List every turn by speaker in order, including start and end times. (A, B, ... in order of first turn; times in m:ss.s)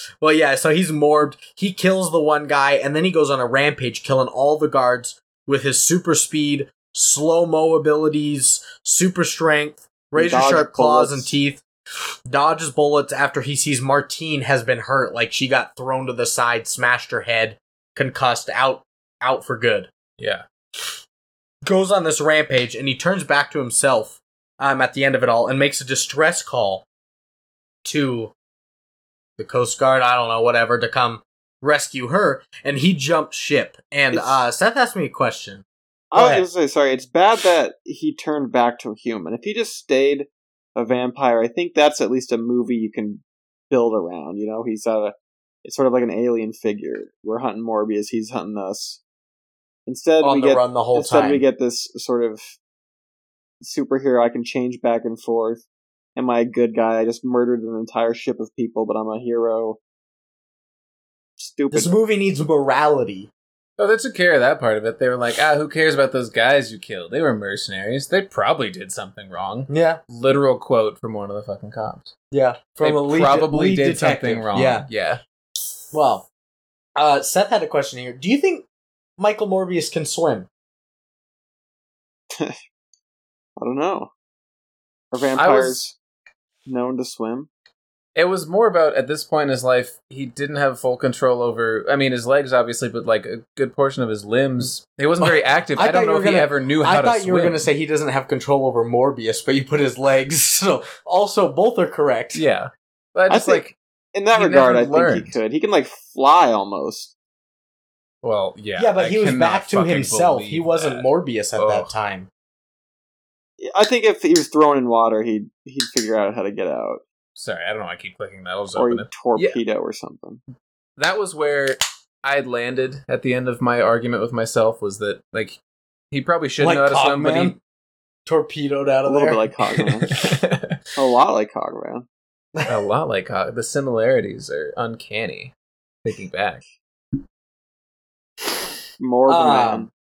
0:00.2-0:11.6 A
0:10.2-0:11.3 B
0:12.3-0:19.9 A
0:20.2-0:20.4 C
0:21.6-0:26.8 A
0:27.8-0:28.3 A
0:29.4-0:36.5 A
0:34.1-0:34.4 B
0:36.1-0:49.0 B
0:49.9-0:52.6 B
0:50.2-0:51.4 A
0:53.6-0:55.6 B
0:56.2-0:59.8 B
1:01.4-1:01.9 B
1:01.7-1:03.3 A
1:03.8-1:12.1 C
1:09.7-1:10.0 A
1:12.3-1:14.9 A
1:12.8-1:15.2 C
1:15.9-1:16.3 A
1:17.0-1:18.7 A
1:19.2-1:20.5 A
1:22.3-1:22.6 B
1:23.6-1:24.1 B
1:25.1-1:26.0 B
1:25.4-1:25.9 C
1:26.7-1:27.5 B
1:28.2-1:37.7 C
1:35.2-1:42.4 A
1:42.3-1:43.8 C
1:43.3-1:47.1 B
1:44.3-1:45.4 C
1:48.2-1:51.9 C
1:48.8-1:52.3 A
1:53.6-1:57.0 B
1:57.4-1:59.6 C
1:58.8-2:00.4 B
2:01.0-2:05.6 C
2:06.1-2:07.6 C
2:06.6-2:07.6 A
2:08.3-2:09.5 A
2:09.1-2:10.2 B
2:10.1-2:10.8 C
2:11.0-2:12.1 B
2:12.7-2:15.5 C
2:16.0-2:16.6 C
2:19.0-2:19.9 B
2:19.3-2:19.9 A